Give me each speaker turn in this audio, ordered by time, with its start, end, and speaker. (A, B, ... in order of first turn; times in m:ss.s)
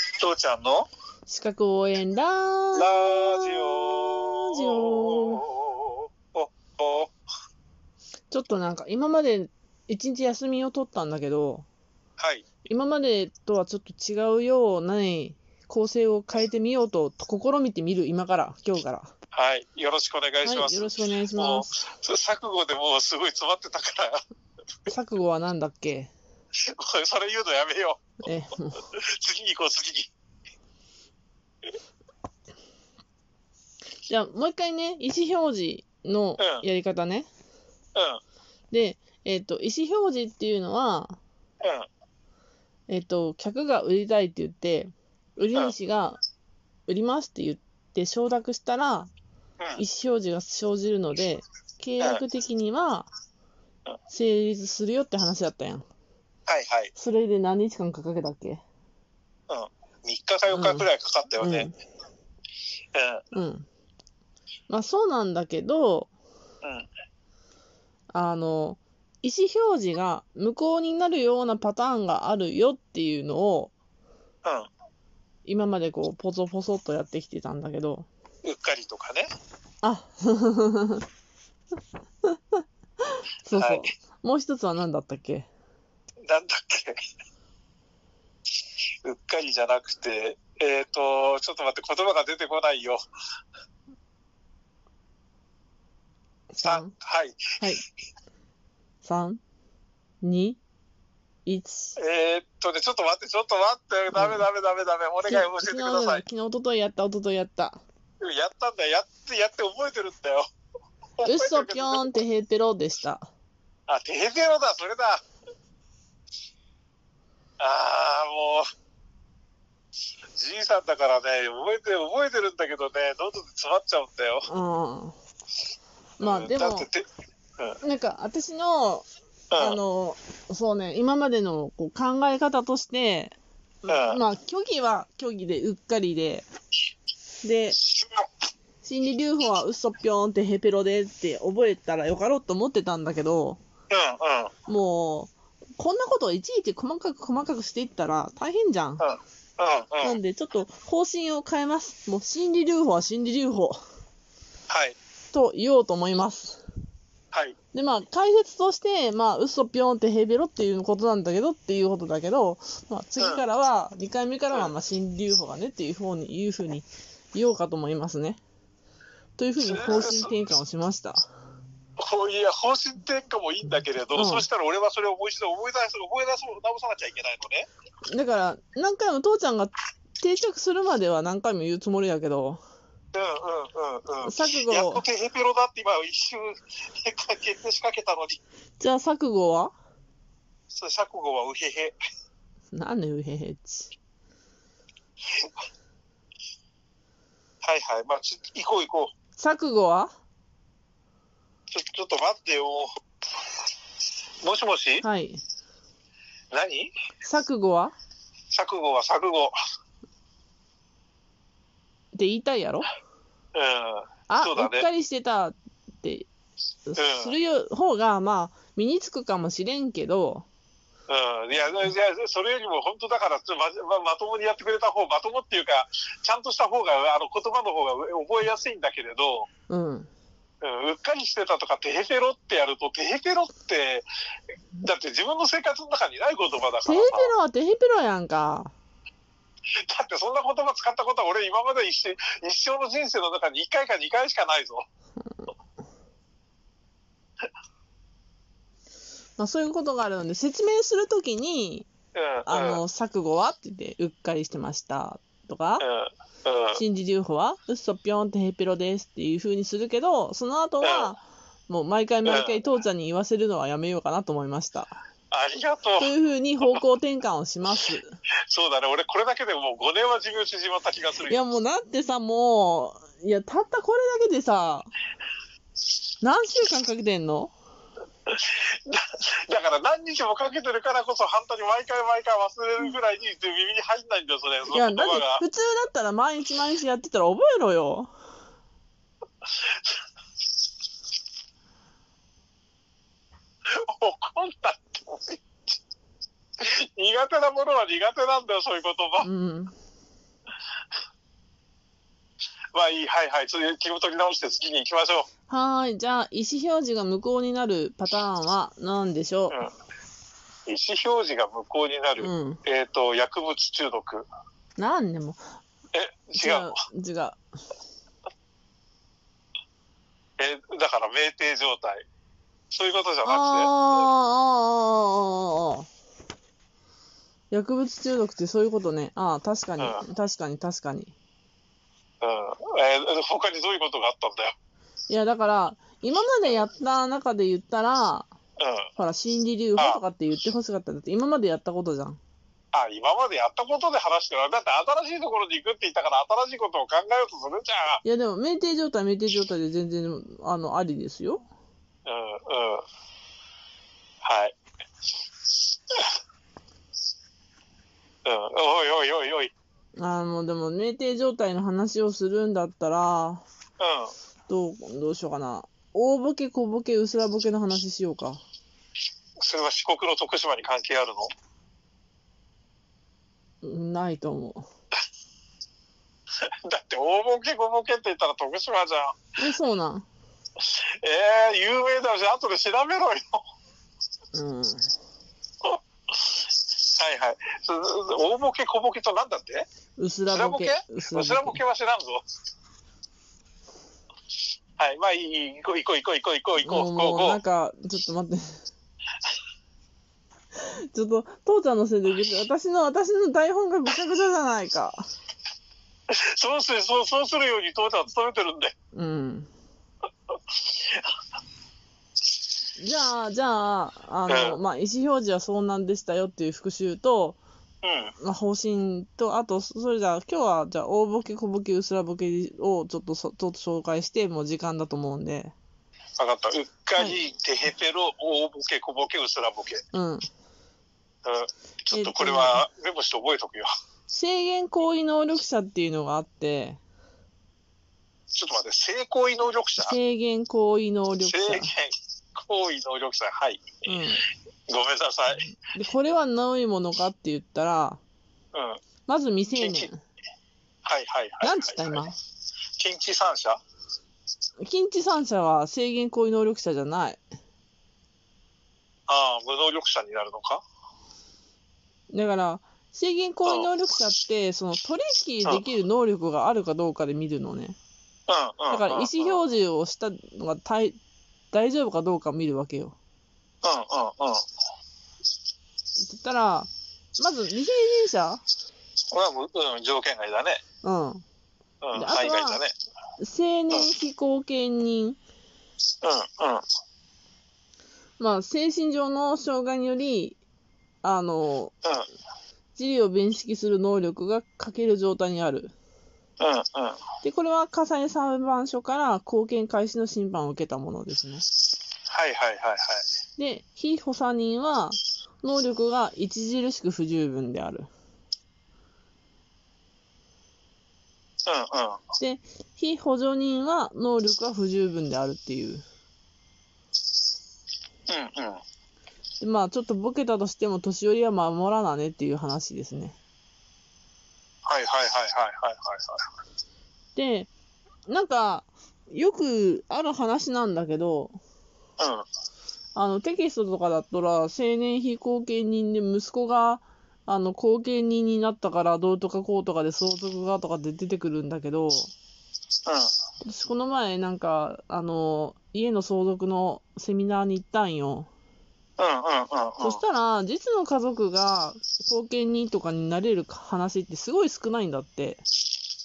0:00.2-0:00.9 A
0:01.3-0:05.4 B
0:02.7-0:07.1 A
0:08.3-0:11.7 B
0:12.2-0:12.4 A
0:12.6-0:19.1 B
0:19.3-0:24.2 A
0:20.4-0:21.7 B
0:24.9-0:26.1 B
0:26.6-0:28.0 A
0:28.2-0:28.8 B
0:28.8-0:30.1 A
0:34.1-0:37.3 B
0:36.4-0:36.6 A
0:37.9-0:38.2 A
0:38.7-0:41.2 B
0:41.6-0:41.9 A
0:42.9-0:46.2 B
0:46.9-0:49.1 B
0:49.8-0:53.1 B
0:54.1-0:55.8 B
0:56.5-0:56.9 A
0:57.0-0:58.6 B
0:59.5-1:01.7 A
1:00.5-1:00.9 B
1:01.4-1:01.7 B
1:02.9-1:03.2 A
1:03.3-1:03.7 B
1:04.7-1:06.1 B
1:06.6-1:06.9 A
1:08.1-1:13.7 B
1:15.4-1:18.1 B
1:18.4-1:19.3 A
1:19.8-1:21.0 B
1:22.2-1:25.5 B
1:23.5-1:23.8 A
1:26.2-1:27.0 A
1:29.0-1:33.0 A
1:36.5-1:36.9 B
1:36.6-1:37.6 A
1:39.0-1:39.4 B
1:40.2-1:40.6 B
1:41.4-1:42.0 B
1:42.0-1:46.2 A
1:44.1-1:44.4 B
1:45.3-1:47.8 B
1:48.2-1:50.4 A
1:51.2-1:52.1 A
1:51.2-1:53.3 B
1:53.9-1:55.2 A
1:57.6-1:58.7 A
2:00.3-2:04.4 A
2:04.5-2:05.2 B
2:06.2-2:06.9 B
2:06.2-2:07.0 A
2:07.8-2:16.5 B
2:09.5-2:09.8 A
2:13.9-2:14.2 A
2:17.4-2:17.8 B
2:18.8-2:23.6 B
2:23.9-2:24.5 A
2:24.7-2:29.0 B
2:29.0-2:30.2 A
2:30.0-2:33.8 B
2:34.7-2:35.0 A
2:35.3-2:36.6 B
2:37.7-2:48.4 B
2:43.2-2:43.4 A
2:49.4-2:51.2 B
2:49.6-2:50.3 A
2:52.0-2:57.7 A
2:54.1-2:54.4 B
2:58.0-3:02.6 B
3:03.1-3:08.4 A
3:04.2-3:05.0 B
3:08.8-3:09.7 B
3:10.7-3:11.9 A
3:12.7-3:13.9 B
3:17.6-3:19.1 A
3:19.4-3:20.1 B
3:21.7-3:22.9 A
3:24.4-3:25.0 A
3:25.0-3:25.4 B
3:26.5-3:26.9 A
3:27.2-3:27.9 B
3:28.5-3:29.5 A
3:32.1-3:32.9 B
3:33.5-3:34.9 A
3:34.3-3:36.3 B
3:36.9-3:40.5 B
3:37.0-3:37.3 A
3:41.1-3:49.5 A
3:49.7-3:50.1 B
3:50.6-3:54.0 A
3:54.8-3:57.3 A
3:56.8-3:58.7 B
3:59.8-4:04.8 A
4:05.2-4:05.5 B
4:09.4-4:11.9 B
4:12.1-4:12.8 A
4:12.4-4:15.8 B
4:15.8-4:16.8 A
4:16.8-4:24.9 B
4:20.8-4:21.1 A
4:22.2-4:22.6 A
4:25.3-4:26.1 A
4:26.0-4:28.1 B
4:28.5-4:31.4 A
4:31.3-4:34.9 B
4:36.2-4:37.5 B
4:38.3-4:45.4 A
4:44.7-4:48.1 B
4:53.7-4:55.4 A
4:56.6-4:59.3 A
4:59.2-4:59.7 B
5:02.7-5:05.3 A
5:05.5-5:09.6 B
5:10.7-5:14.3 A
5:12.2-5:12.6 B
5:14.8-5:15.4 B
5:15.9-5:16.7 A
5:16.4-5:17.4 B
5:20.4-5:22.0 A
5:22.7-5:24.0 A
5:23.2-5:25.9 B
5:27.5-5:31.1 B
5:32.2-5:34.5 A
5:35.1-5:38.3 B
5:38.6-5:38.9 A
5:39.0-5:42.2 B
5:42.7-5:48.0 A
5:48.0-5:51.5 B
5:52.0-5:52.8 A
5:54.2-5:54.6 A
5:58.2-5:59.5 A
6:00.0-6:03.4 B
6:03.8-6:04.1 A
6:04.5-6:08.4 B
6:09.4-6:11.3 A
6:13.6-6:14.6 B
6:16.5-6:19.3 A
6:19.4-6:20.1 B
6:20.6-6:23.4 A
6:24.3-6:24.9 B
6:25.6-6:29.7 A
6:30.0-6:31.6 B
6:30.3-6:32.2 A
6:34.8-6:37.4 A
6:36.6-6:38.6 B
6:40.5-6:45.1 B
6:46.1-6:48.7 A
6:48.9-6:49.5 B
6:50.7-6:51.0 A
6:52.8-6:57.4 B
6:54.3-6:54.6 A
6:57.8-6:58.1 A
6:58.2-7:05.5 B
7:06.2-7:09.8 A
7:07.0-7:07.2 B
7:09.9-7:10.2 B
7:11.2-7:13.7 A
7:11.9-7:12.6 B
7:14.1-7:16.8 B
7:18.3-7:20.0 A
7:19.8-7:21.7 B
7:21.2-7:23.8 A
7:23.8-7:24.2 B
7:24.7-7:25.5 A
7:25.6-7:28.0 B
7:28.5-7:28.8 A
7:29.1-7:30.0 B
7:29.5-7:29.9 A
7:30.8-7:32.0 A
7:31.4-7:32.2 B
7:32.8-7:33.6 A
7:34.6-7:37.2 B
7:39.1-7:40.6 A
7:42.1-7:47.8 B
7:48.3-7:49.4 A
7:48.7-7:51.0 B
7:51.5-7:53.0 B
7:53.6-7:54.4 A
7:56.0-7:58.4 B
7:59.1-8:00.6 A
8:00.8-8:01.2 B
8:01.8-8:02.7 A
8:01.9-8:02.6 B
8:03.2-8:05.2 B
8:06.0-8:06.6 A
8:08.2-8:10.4 B
8:11.0-8:11.7 B
8:12.8-8:15.7 B
8:16.4-8:17.0 A
8:17.2-8:21.4 B
8:22.1-8:23.0 A
8:23.4-8:27.9 B
8:31.4-8:32.0 A
8:32.2-8:35.8 B
8:38.1-8:38.6 A
8:39.4-8:43.2 B
8:44.6-8:46.2 A
8:47.2-8:47.5 B
8:48.1-8:51.4 B
8:52.0-8:52.2 A
8:52.9-9:02.1 B
9:03.4-9:08.3 B
9:09.0-9:10.0 A
9:09.8-9:15.4 B